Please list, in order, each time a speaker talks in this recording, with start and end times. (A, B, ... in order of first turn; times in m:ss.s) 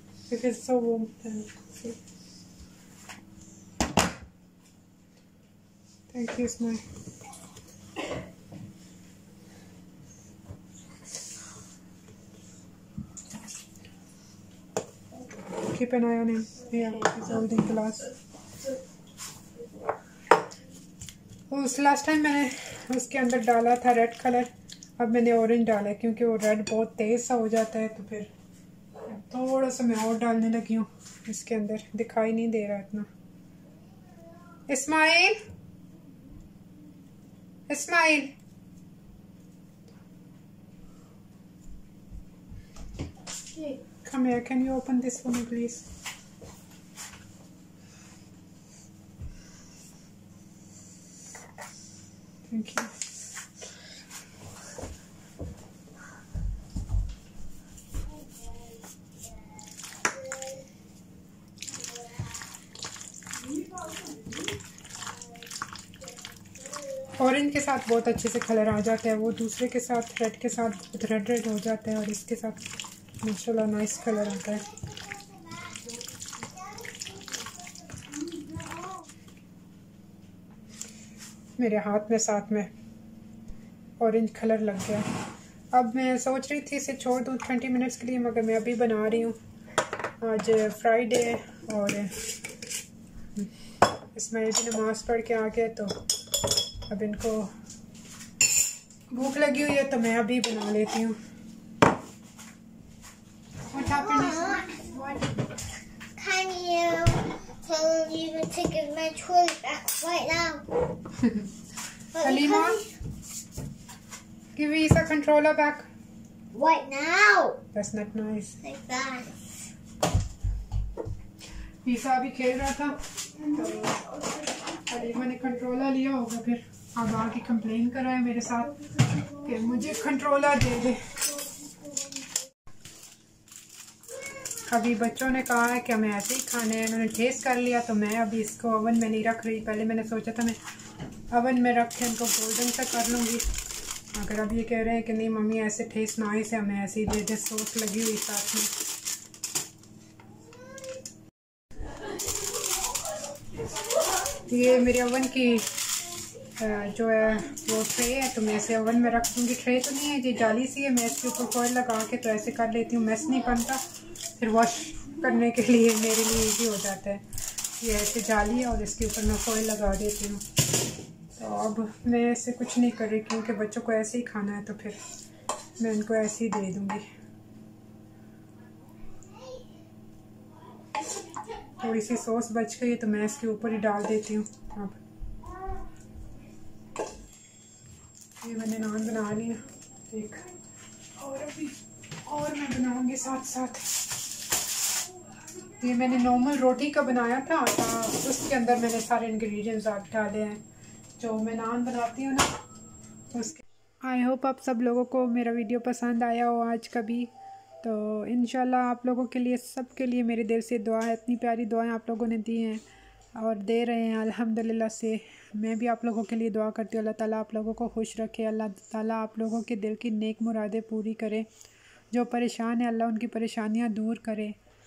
0:00.3-0:02.0 A
0:06.1-0:06.8 A
0:15.6-0:18.1 A
0:21.5-0:28.3 A
0:29.0-0:33.1 A
0:34.7-0:35.4 A
0:37.7-0:38.3 A
0:44.0-0:45.8 A
0:52.5-0:53.0 A
1:07.1-1:12.7 A
1:13.2-1:14.7 A
1:14.5-1:19.1 B
1:21.6-1:22.7 A
1:24.0-1:25.1 A
1:25.7-1:29.4 A
1:30.2-1:32.2 A
1:34.1-1:36.0 A
1:36.9-1:37.5 A
1:39.1-1:41.2 A
1:43.7-1:45.3 A
1:43.7-1:44.8 B
1:46.2-1:50.7 B
1:51.1-1:51.5 A
1:52.1-1:52.9 B
1:52.2-1:52.8 A
1:54.5-1:55.9 A
1:56.5-1:57.6 B
1:57.7-1:58.6 A
1:58.6-1:59.4 B
2:01.8-2:11.2 A
2:14.7-2:20.6 A
2:21.3-2:23.4 A
2:24.1-2:28.7 A
2:34.5-2:35.7 A
2:36.6-2:43.8 A
2:44.4-2:47.3 A
2:47.8-2:50.4 A
2:51.3-2:55.0 A
2:55.8-2:57.1 A
3:01.8-3:05.0 A
3:08.4-3:10.4 A
3:11.2-3:13.9 A
3:15.8-3:20.6 A
3:21.2-3:22.5 A
3:23.3-3:27.3 A
3:27.8-3:32.8 A
3:33.4-3:41.5 A
3:42.1-3:44.6 A